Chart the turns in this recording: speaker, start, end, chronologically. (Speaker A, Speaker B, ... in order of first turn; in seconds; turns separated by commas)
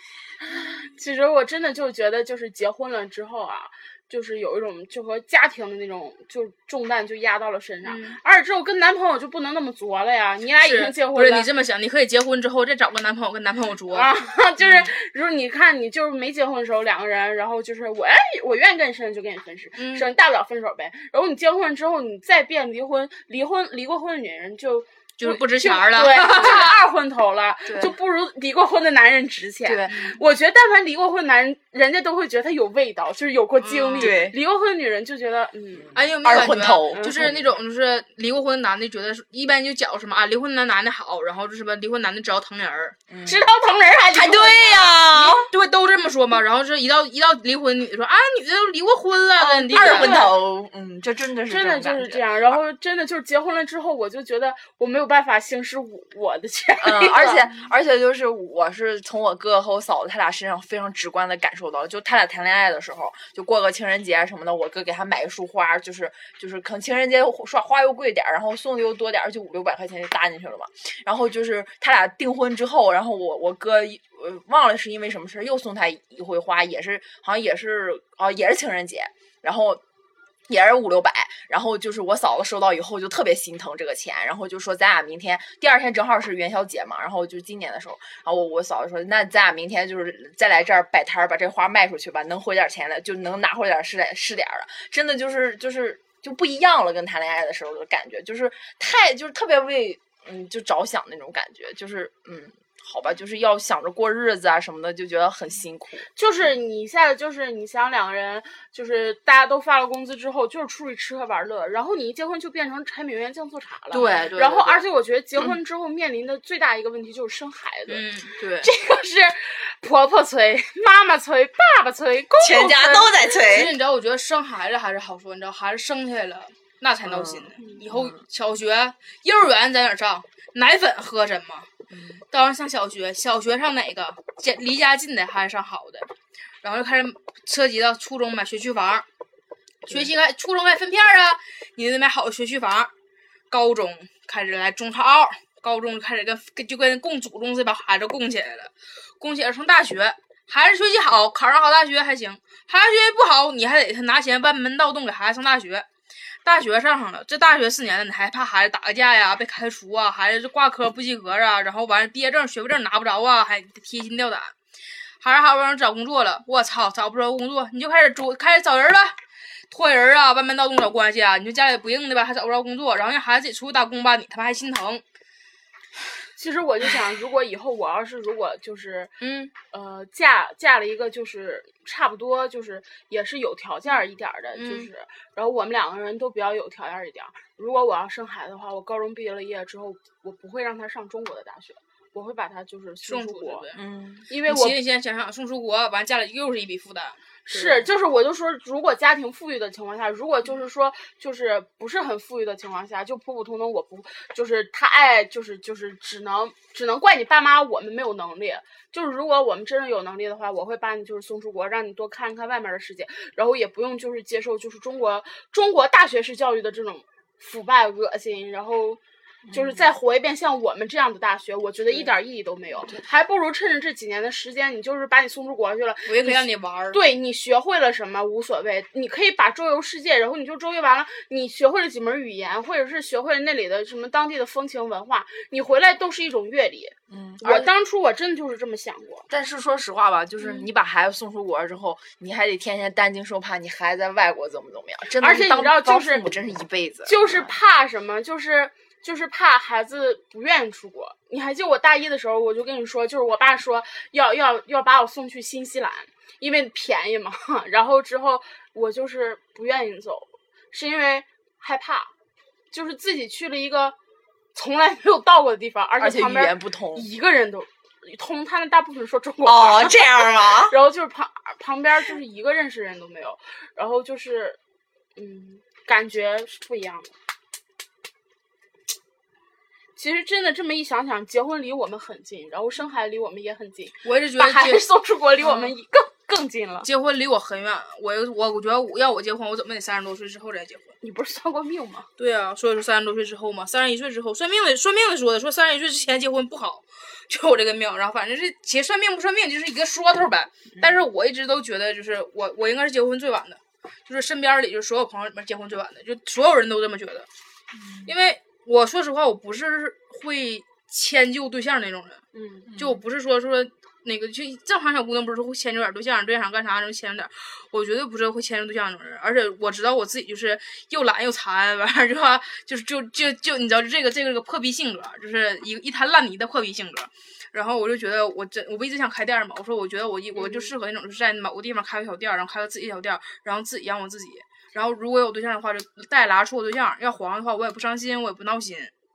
Speaker A: 0.5-11.5, Speaker B: 7.8-8.2, Speaker B: 10.6-14.1, Speaker A: 13.9-35.9, Speaker B: 19.8-20.1, Speaker B: 25.2-26.8, Speaker C: 27.6-27.9, Speaker C: 29.6-30.1, Speaker B: 29.9-30.2, Speaker B: 33.6-34.2, Speaker C: 34.0-34.4, Speaker C: 35.9-37.5, Speaker B: 35.9-43.0, Speaker A: 36.9-37.3, Speaker C: 43.1-43.4, Speaker A: 43.2-45.0, Speaker C: 44.1-45.5, Speaker B: 45.1-50.2, Speaker C: 49.4-52.5, Speaker A: 49.7-50.3, Speaker A: 51.5-57.5, Speaker C: 56.8-79.8, Speaker C: 80.5-106.1, Speaker A: 106.1-123.1, Speaker C: 113.9-114.8, Speaker B: 117.9-118.3, Speaker C: 118.4-118.7, Speaker C: 122.4-123.7, Speaker B: 123.4-131.7, Speaker C: 127.0-128.2, Speaker A: 127.6-127.8, Speaker C: 131.9-132.2, Speaker B: 132.3-136.1, Speaker B: 136.6-139.1, Speaker B: 139.9-142.9, Speaker B: 143.5-155.9, Speaker B: 156.4-164.5, Speaker B: 165.2-169.2, Speaker B: 169.7-175.0, Speaker A: 176.3-179.1, Speaker B: 179.2-179.5, Speaker A: 179.7-193.7, Speaker B: 184.6-184.9, Speaker B: 193.0-197.8, Speaker C: 193.8-194.3, Speaker A: 194.3-194.8, Speaker A: 197.5-219.0, Speaker C: 219.5-219.9, Speaker A: 219.5-239.3, Speaker B: 226.1-227.0, Speaker C: 237.1-237.7, Speaker C: 239.3-247.5, Speaker A: 245.2-246.2, Speaker A: 247.1-262.1, Speaker A: 262.7-263.9, Speaker A: 264.5-274.6, Speaker C: 266.0-267.1, Speaker C: 269.4-270.7, Speaker A: 275.1-277.1, Speaker A: 279.9-286.9, Speaker B: 284.0-284.8, Speaker B: 285.4-285.7, Speaker B: 286.8-290.9, Speaker A: 291.0-292.1, Speaker B: 292.2-307.3, Speaker C: 307.7-308.1, Speaker B: 308.0-312.2, Speaker A: 312.3-312.7, Speaker C: 312.6-313.0, Speaker B: 312.8-338.9, Speaker A: 330.4-330.7